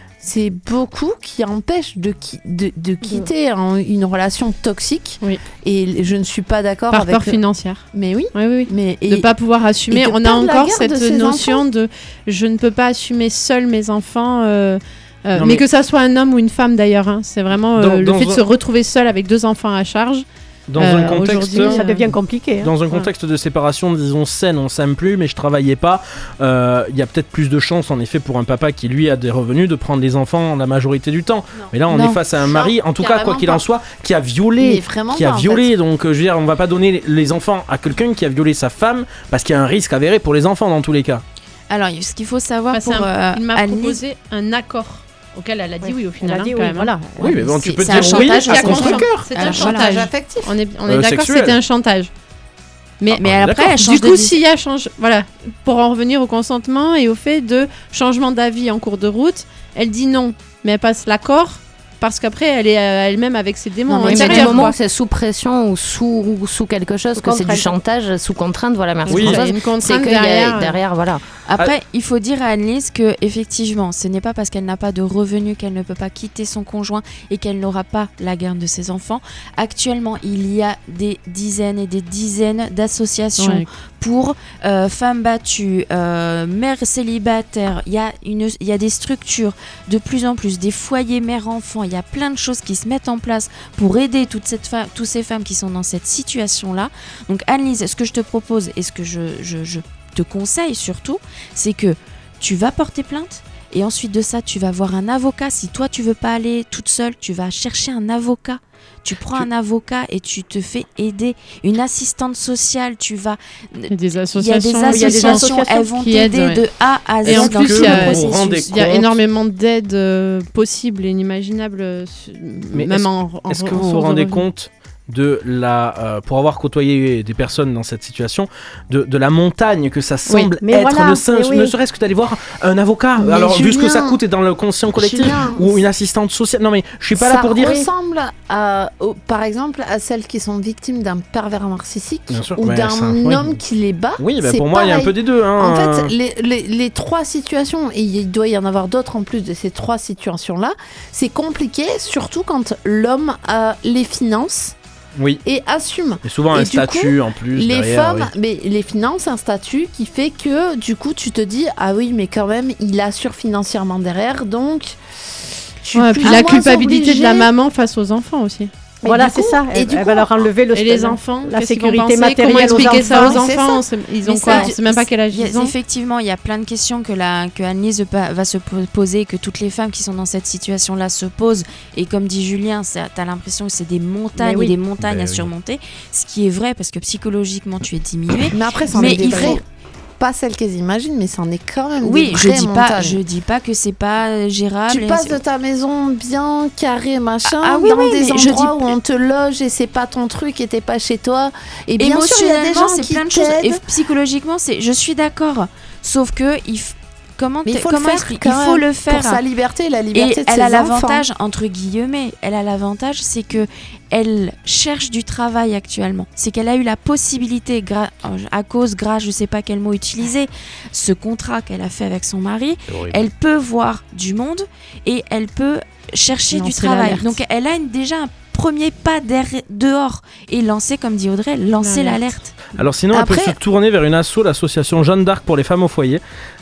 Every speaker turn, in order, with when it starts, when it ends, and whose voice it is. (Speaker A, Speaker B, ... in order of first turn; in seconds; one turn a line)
Speaker A: 0.2-7.4
Speaker B: 6.9-20.2
Speaker A: 7.9-9.3
Speaker A: 9.9-11.6
Speaker C: 15.3-15.6
Speaker C: 17.8-18.4
Speaker C: 20.7-21.8
Speaker B: 20.8-22.2
Speaker D: 20.9-22.7
Speaker C: 22.6-41.2
Speaker A: 31.9-33.6
Speaker A: 34.6-35.7
Speaker E: 41.7-44.0
Speaker B: 42.7-46.9
Speaker D: 45.8-47.4
Speaker C: 47.2-49.1
Speaker E: 47.2-49.9
Speaker B: 48.0-52.1
Speaker A: 48.6-50.5
Speaker C: 50.9-51.6
Speaker B: 53.0-64.7
Speaker E: 53.1-54.4
Speaker C: 53.2-53.7
Speaker A: 63.9-64.7
Speaker F: 64.0-71.2
Speaker D: 67.2-67.7
Speaker B: 69.0-70.8
Speaker C: 69.1-69.4
Speaker E: 71.5-118.7
Speaker B: 83.4-83.7
Speaker B: 113.9-116.6
Speaker D: 114.9-115.5
Speaker B: 117.2-124.5
Speaker C: 117.2-119.1
Speaker C: 122.7-137.9
Speaker D: 130.3-131.7
Speaker A: 133.2-134.2
Speaker A: 134.9-135.8
Speaker A: 137.1-154.8
Speaker C: 142.3-143.6
Speaker C: 144.2-146.1
Speaker C: 155.2-155.4
Speaker A: 155.4-165.0
Speaker C: 156.2-158.3
Speaker A: 165.8-167.5
Speaker B: 165.9-168.7
Speaker A: 169.0-170.5
Speaker D: 169.1-173.4
Speaker B: 170.7-175.7
Speaker A: 172.7-173.8
Speaker E: 174.2-189.6
Speaker D: 184.4-184.7
Speaker C: 185.0-185.5
Speaker A: 188.5-189.6
Speaker D: 189.0-189.6
Speaker A: 190.2-193.2
Speaker E: 192.0-195.4
Speaker A: 194.9-203.8
Speaker E: 197.4-198.9
Speaker E: 202.0-209.4
Speaker A: 207.6-211.2
Speaker E: 210.1-232.5
Speaker C: 222.9-223.2
Speaker B: 226.5-227.4
Speaker B: 231.8-232.2
Speaker C: 232.8-236.2
Speaker A: 233.1-233.5